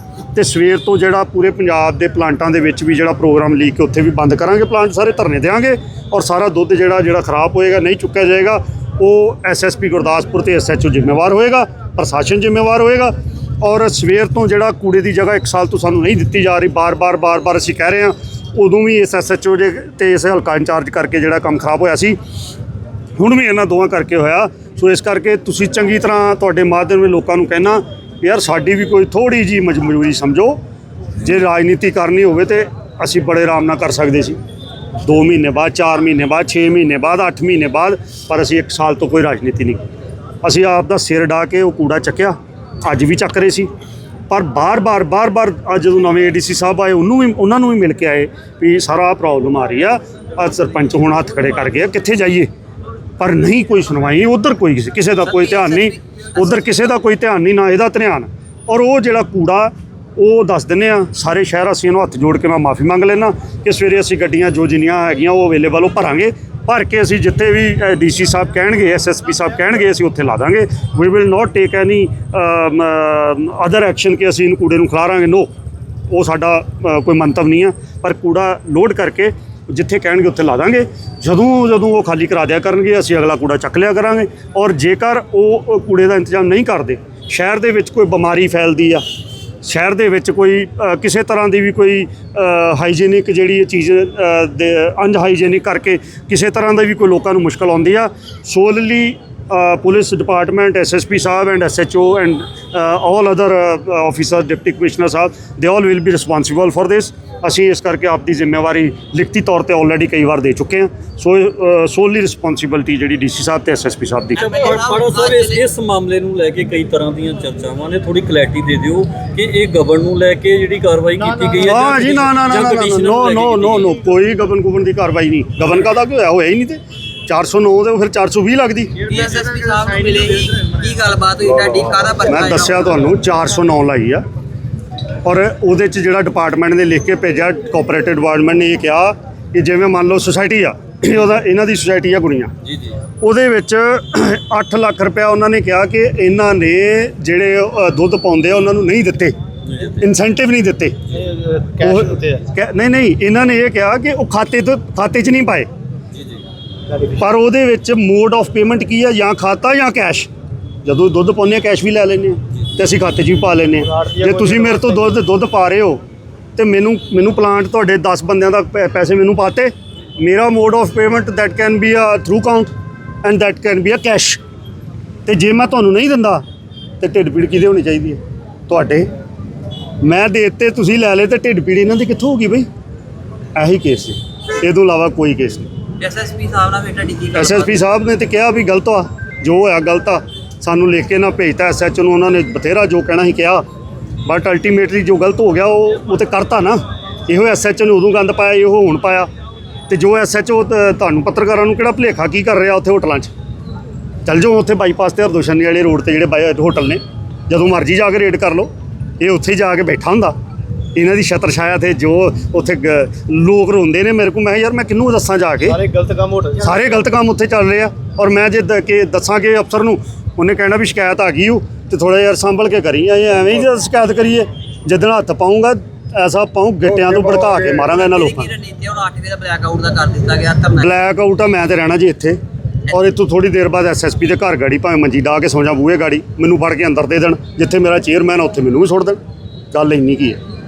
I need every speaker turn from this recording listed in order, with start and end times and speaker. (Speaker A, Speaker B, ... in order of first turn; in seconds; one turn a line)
Speaker A: 0.3-22.2
Speaker A: 23.2-30.6
Speaker A: 31.2-34.4
Speaker A: 35.0-39.8
Speaker A: 40.4-43.7
Speaker A: 44.3-52.5
Speaker A: 53.2-75.5
Speaker B: 55.4-55.9
Speaker A: 76.1-89.0
Speaker A: 89.6-114.4
Speaker B: 114.4-115.6
Speaker C: 114.4-124.0
Speaker A: 121.6-128.9
Speaker B: 129.0-133.0
Speaker A: 132.2-134.2
Speaker A: 135.2-142.5
Speaker C: 142.7-142.9
Speaker A: 143.2-149.3
Speaker C: 149.7-150.1
Speaker A: 150.0-150.9
Speaker D: 151.1-152.4
Speaker A: 151.8-155.7
Speaker D: 156.9-157.2
Speaker A: 157.2-160.3
Speaker A: 160.8-166.0
Speaker D: 163.8-165.0
Speaker A: 166.6-172.7
Speaker A: 173.2-174.4
Speaker A: 175.2-176.4
Speaker A: 177.0-179.1
Speaker A: 180.0-182.7
Speaker A: 183.5-185.7
Speaker B: 186.0-187.7
Speaker A: 187.3-193.6
Speaker A: 194.2-199.3
Speaker A: 199.9-203.3
Speaker A: 204.2-208.7
Speaker A: 209.2-210.3
Speaker A: 210.9-215.8
Speaker D: 215.7-216.8
Speaker A: 216.6-228.5
Speaker B: 227.9-230.9
Speaker A: 230.7-232.4
Speaker A: 232.9-239.2
Speaker A: 239.7-240.4